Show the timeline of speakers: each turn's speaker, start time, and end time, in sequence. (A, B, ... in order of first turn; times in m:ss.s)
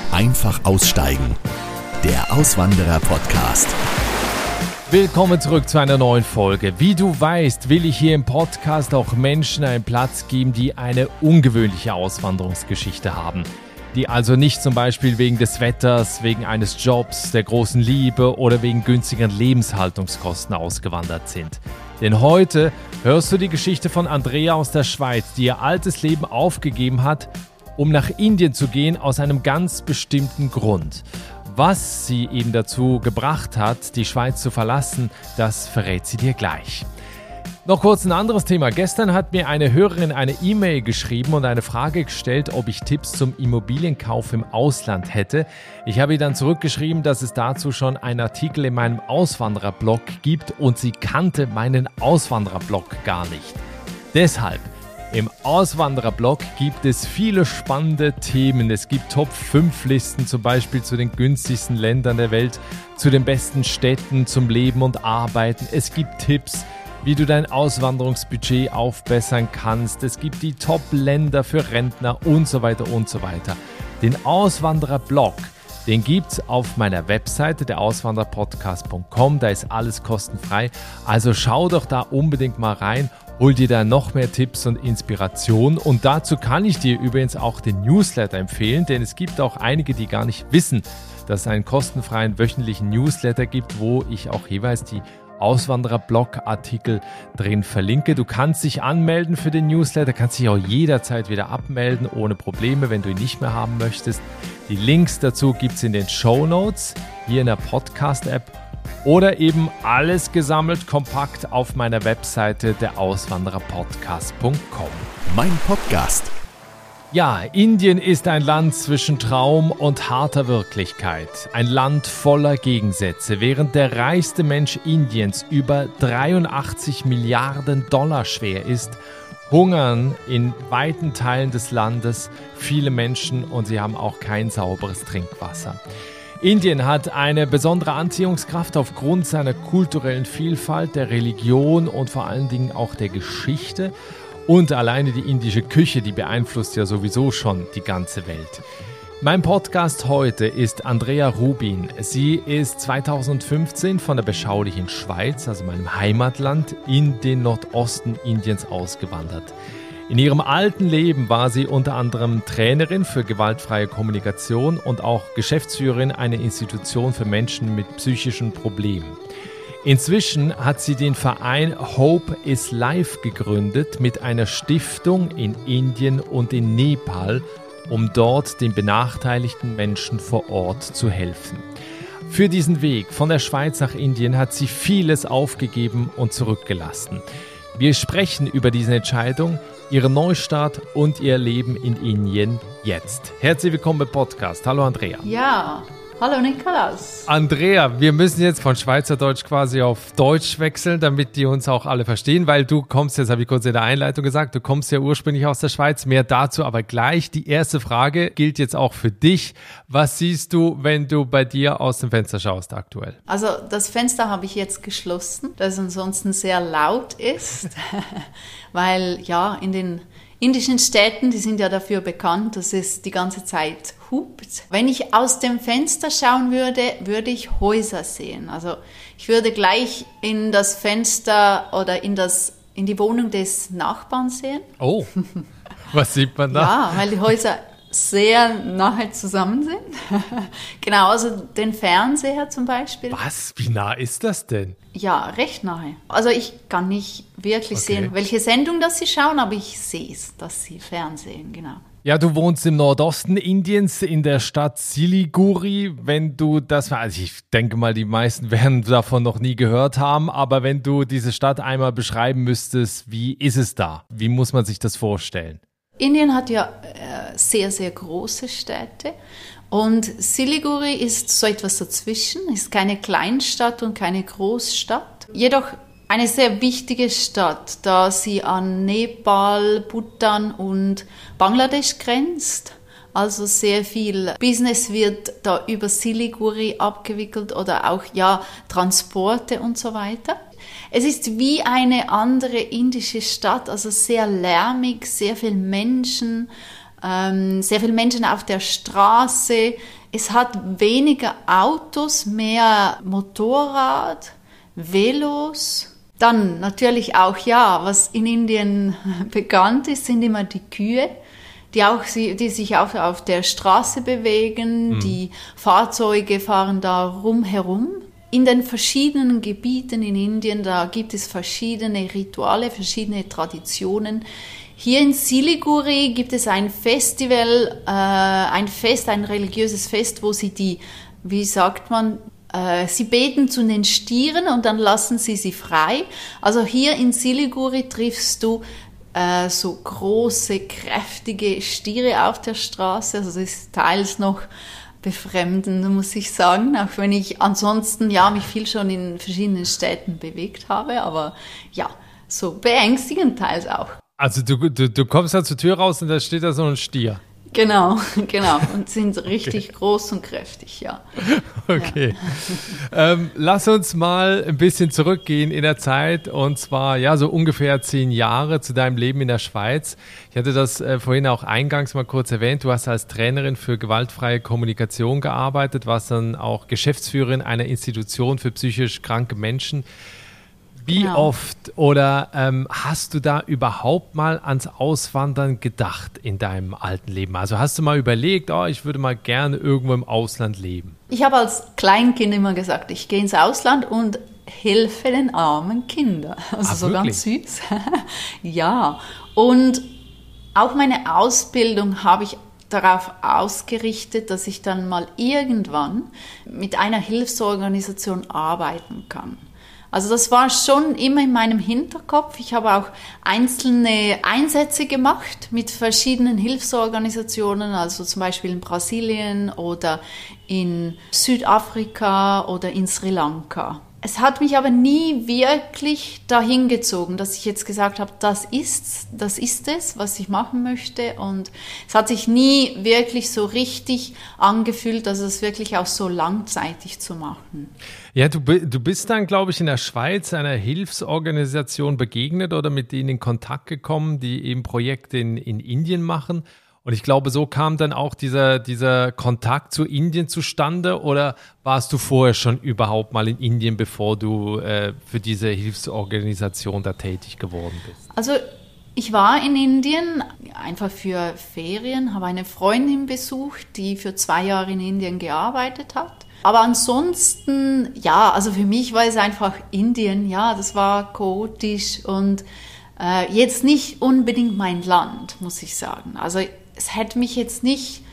0:00.1-0:01.4 A
0:02.0-0:03.8 A
0:04.9-0:36.9 B
0:37.6-0:53.6 B
0:54.1-1:48.5 B
1:49.0-1:55.1 B
1:55.3-1:56.3 A
1:57.1-2:15.8 B
2:16.4-2:23.9 B
2:24.5-2:28.6 B
2:29.2-2:39.6 B
2:40.1-2:49.2 B
2:49.8-3:01.7 B
3:02.3-3:07.2 B
3:07.7-3:15.3 B
3:15.2-3:17.3 C
3:17.3-3:33.2 B
3:33.3-3:54.7 C
3:54.8-3:55.1 B
3:55.9-3:57.0 B
3:56.5-4:03.2 C
4:03.1-4:04.8 B
4:04.9-4:11.8 C
4:07.7-4:08.1 B
4:12.0-4:25.6 B
4:26.0-4:29.1 C
4:29.7-4:50.4 C
4:50.9-4:56.5 C
4:57.0-5:11.1 C
5:11.7-5:24.2 C
5:14.9-5:15.2 B
5:24.8-5:44.5 C
5:45.0-5:54.0 C
5:54.2-5:57.2 B
5:57.5-6:01.0 C
6:01.2-6:19.8 B
6:01.8-6:02.8 C
6:20.8-6:31.0 B
6:20.9-6:21.3 C
6:31.1-6:39.8 C
6:36.6-6:37.2 B
6:40.6-7:17.7 C
7:18.1-7:38.0 B
7:38.1-7:38.4 C
7:39.0-7:52.4 C
7:53.0-7:58.0 C